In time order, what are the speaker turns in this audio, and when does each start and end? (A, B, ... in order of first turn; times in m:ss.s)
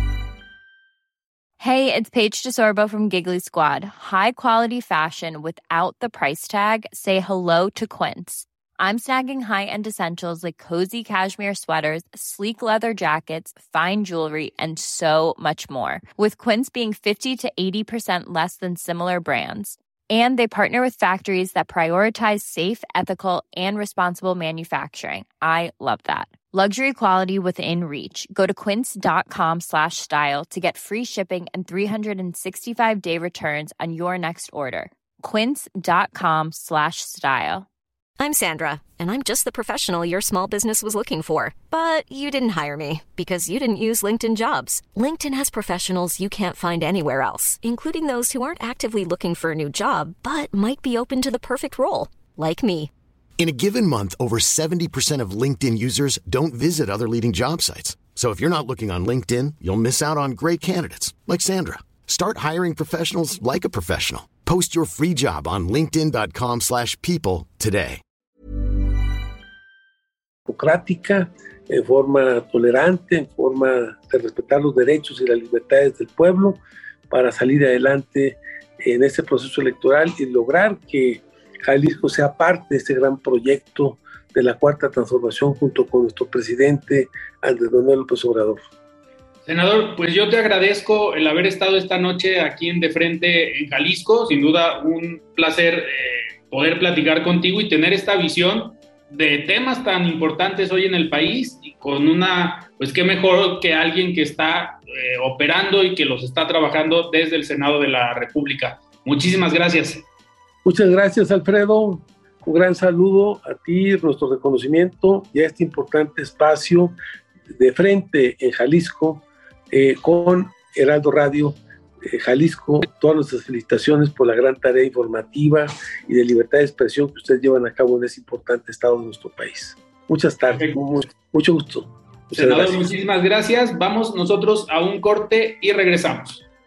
0:01.6-0:37.7 A
0:38.2-0:52.9 B
0:53.4-1:08.0 C
1:10.5-1:28.6 D
1:29.5-1:50.1 E
1:50.6-1:57.0 D
1:57.5-2:12.8 D
2:12.3-2:16.5 E